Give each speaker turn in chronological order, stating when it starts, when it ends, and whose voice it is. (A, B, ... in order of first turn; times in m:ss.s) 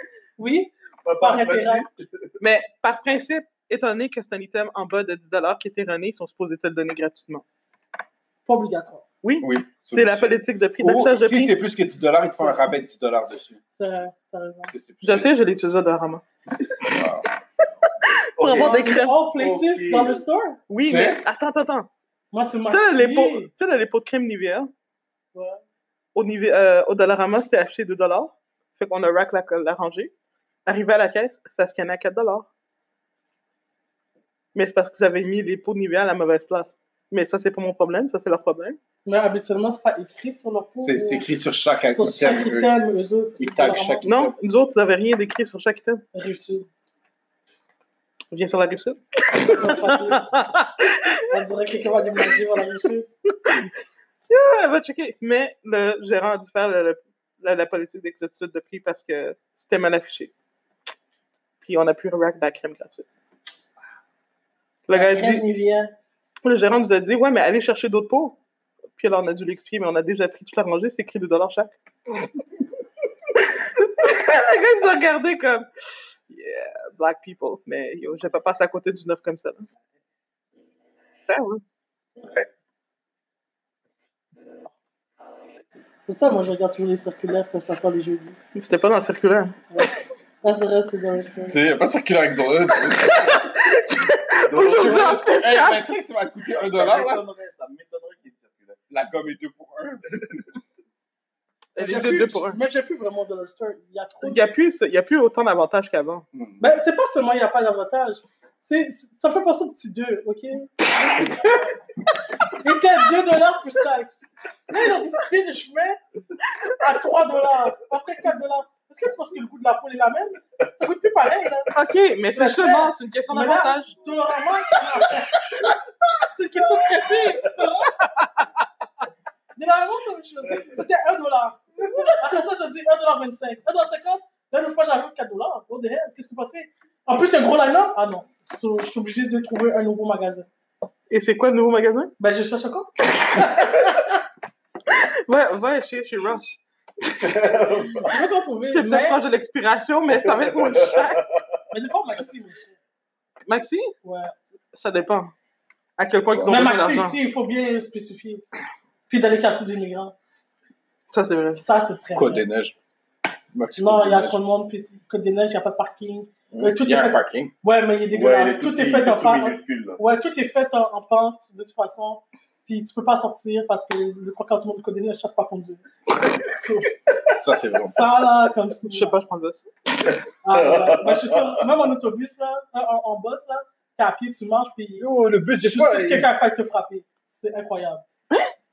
0:00.4-0:01.9 A
0:01.0-0:02.3 B
0:02.4-0:07.4 C
0:08.4-0:09.0 A
0:09.2-0:11.6 C
0:09.4-0:13.6 D
0:12.4-0:12.7 A
0:13.7-0:14.7 A
0:14.7-0:15.3 D
0:15.0-0:16.2 C
0:16.8-0:17.3 D
0:18.4-0:19.2 C
0:18.4-0:20.2 B
0:18.5-0:20.6 A
0:20.7-0:21.9 C
0:20.8-0:21.2 D
0:22.3-0:23.5 A
0:22.7-0:24.7 C
0:25.3-0:25.6 A
0:26.1-0:30.1 C
0:30.6-0:32.5 C
0:34.5-0:38.8 C
0:39.0-0:41.3 A
0:40.8-0:42.7 D
0:41.9-0:44.1 A
0:43.4-0:44.3 D
0:44.0-0:46.0 C
0:46.1-0:46.7 A
0:48.3-0:51.3 C
0:49.4-0:50.3 A
0:51.3-0:53.1 A
0:54.3-1:00.3 C
1:01.6-1:03.0 C
1:04.9-1:05.4 C
1:04.9-1:05.9 A
1:06.4-1:08.4 C
1:09.0-1:11.8 C
1:13.4-1:19.7 C
1:21.3-1:21.6 C
1:22.2-1:22.5 B
1:26.1-1:28.4 A
1:28.5-1:29.6 C
1:30.4-1:31.6 A
1:31.5-1:33.5 D
1:33.0-1:35.9 C
1:34.5-1:35.2 B
1:34.5-1:37.2 D
1:36.6-1:38.8 B
1:38.9-1:40.2 D
1:41.7-1:42.6 C
1:41.8-1:44.5 A
1:44.2-1:46.2 C
1:46.3-1:46.7 D
1:46.6-1:51.8 A
1:52.6-1:56.0 A
1:56.7-2:01.7 A
2:01.7-2:04.0 C
2:02.3-2:05.5 A
2:06.3-2:08.0 A
2:09.6-2:20.5 A
2:21.1-2:22.1 C
2:22.2-2:24.0 A
2:24.9-2:26.6 C
2:27.1-2:28.1 B
2:28.1-2:29.2 A
2:28.6-2:31.2 C
2:30.2-2:31.4 B
2:31.7-2:32.8 A
2:33.4-2:34.0 C
2:34.0-2:34.3 A
2:34.7-2:35.3 C
2:36.0-2:37.2 C
2:36.4-2:38.4 A
2:39.1-2:40.1 A
2:41.1-2:41.6 C
2:41.5-2:42.4 A
2:42.1-2:42.8 D
2:43.5-2:44.4 D
2:43.8-2:56.9 A
2:46.7-2:47.5 D
2:48.1-2:50.0 B
2:57.3-2:58.0 D
2:57.8-2:59.2 A
2:58.9-2:59.7 C
3:00.0-3:01.7 B
3:00.4-3:08.0 A
3:05.0-3:06.3 D